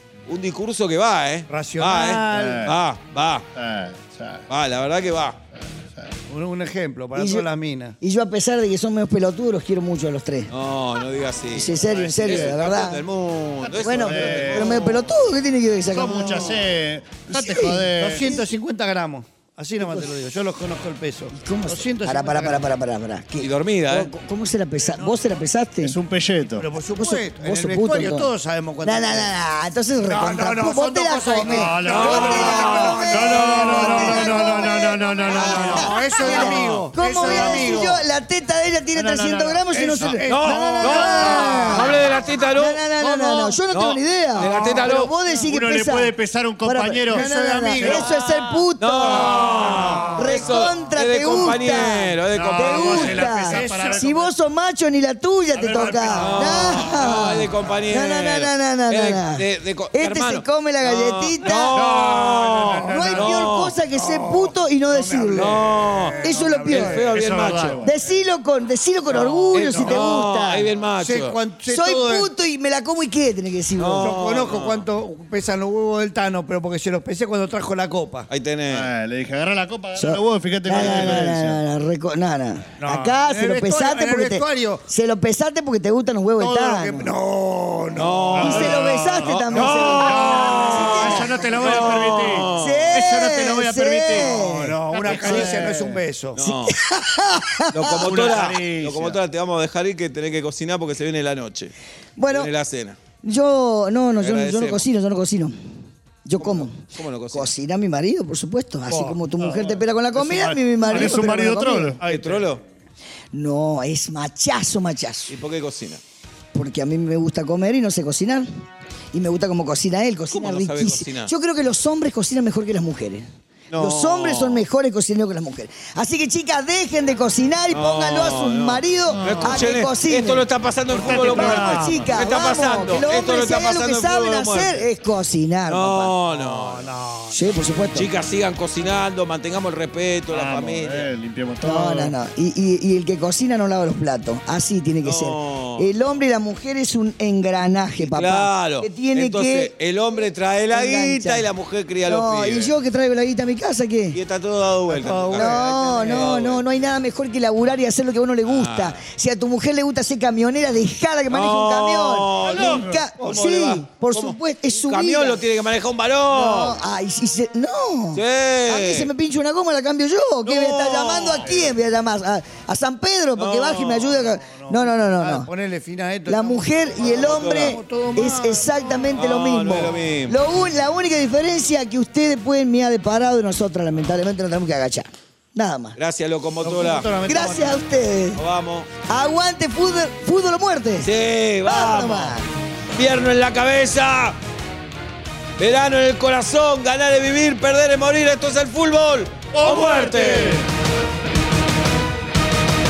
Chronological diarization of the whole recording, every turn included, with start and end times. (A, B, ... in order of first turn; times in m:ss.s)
0:00.3-0:03.4 A
0:01.5-0:02.7 B
0:02.3-0:02.7 C
0:03.6-0:04.5 C
0:04.5-0:05.4 A
0:05.6-0:06.2 C
0:06.3-0:08.0 B
0:07.1-0:07.4 D
0:08.0-0:10.5 D
0:10.5-0:15.1 A
0:11.5-0:13.0 D
0:12.2-0:12.6 C
0:13.6-0:15.0 C
0:13.8-0:16.6 D
0:15.9-0:18.4 C
0:17.3-0:18.4 D
0:17.9-0:22.7 B
0:19.8-0:20.1 D
0:21.3-0:26.0 D
0:23.4-0:24.1 A
0:24.9-0:25.2 B
0:25.8-0:26.7 C
0:26.6-0:29.3 B
0:26.9-0:28.3 D
0:28.8-0:42.0 D
0:30.0-0:38.0 B
0:31.4-0:38.0 C
0:31.8-0:34.4 A
0:35.3-0:37.6 A
0:38.9-0:39.6 C
0:39.7-0:41.9 B
0:40.0-0:45.1 A
0:41.2-0:41.8 C
0:42.5-0:49.6 D
0:44.4-0:47.3 C
0:47.1-0:48.1 B
0:47.8-0:48.1 C
0:48.8-0:53.2 A
0:49.2-0:50.3 B
0:50.1-1:01.8 D
0:51.6-0:54.3 C
0:52.8-0:54.1 B
0:55.5-0:56.9 C
0:56.1-1:03.7 A
1:01.7-1:07.4 B
1:01.8-1:02.3 C
1:02.8-1:05.6 D
1:05.3-1:07.8 A
1:06.2-1:07.0 D
1:07.0-1:08.0 C
1:07.8-1:10.7 D
1:09.1-1:11.4 A
1:09.8-1:10.2 B
1:11.0-1:12.3 B
1:11.7-1:14.1 D
1:13.8-1:14.8 A
1:13.9-1:18.3 B
1:18.3-1:18.9 A
1:18.7-1:21.6 C
1:20.0-1:27.1 D
1:20.8-1:21.3 A
1:22.8-1:24.8 B
1:26.4-1:28.6 B
1:27.9-1:33.0 A
1:28.3-1:36.0 C
1:28.4-1:35.5 D
1:29.7-1:30.6 B
1:34.4-1:36.4 B
1:35.1-1:35.4 A
1:36.3-1:36.8 A
1:36.4-1:38.3 D
1:37.7-1:41.7 A
1:37.9-1:39.2 C
1:42.2-1:42.5 D
1:42.3-1:43.0 A
1:43.2-1:45.6 D
1:44.2-1:44.9 A
1:46.2-1:52.0 D
1:46.4-1:47.5 A
1:48.9-1:49.2 B
1:49.4-1:52.0 C
1:50.9-1:51.4 B
1:52.0-1:52.6 B
1:52.0-1:52.6 A
1:53.3-1:55.4 D
1:55.3-1:56.0 A
1:56.5-1:58.5 D
1:59.1-2:10.4 D
2:00.3-2:01.3 A
2:03.7-2:04.6 A
2:07.7-2:14.8 A
2:09.1-2:09.7 C
2:10.9-2:12.1 C
2:11.0-2:16.1 D
2:15.7-2:16.9 A
2:16.3-2:17.6 B
2:17.3-2:18.1 D
2:17.9-2:21.1 A
2:20.3-2:22.1 C
2:21.6-2:29.7 D
2:25.0-2:25.9 A
2:28.0-2:32.7 A
2:30.7-2:31.5 D
2:32.0-2:34.2 D
2:34.1-2:36.6 A
2:34.9-2:36.4 B
2:35.3-2:45.5 D
2:38.4-2:39.0 A
2:41.3-2:46.8 A
2:42.6-2:43.0 B
2:46.3-2:55.5 D
2:48.1-2:49.1 A
2:50.4-2:51.7 A
2:53.4-2:54.3 A
2:54.4-2:59.1 B
2:56.3-3:06.0 D
2:57.0-2:57.8 A
2:59.2-3:00.4 A
3:06.0-3:07.1 A
3:06.6-3:07.8 B
3:07.2-3:08.4 D
3:08.3-3:08.9 A
3:09.1-3:11.1 D
3:11.0-3:12.4 A
3:11.6-3:12.5 D
3:12.9-3:14.4 A
3:15.6-3:20.6 A
3:19.5-3:20.6 C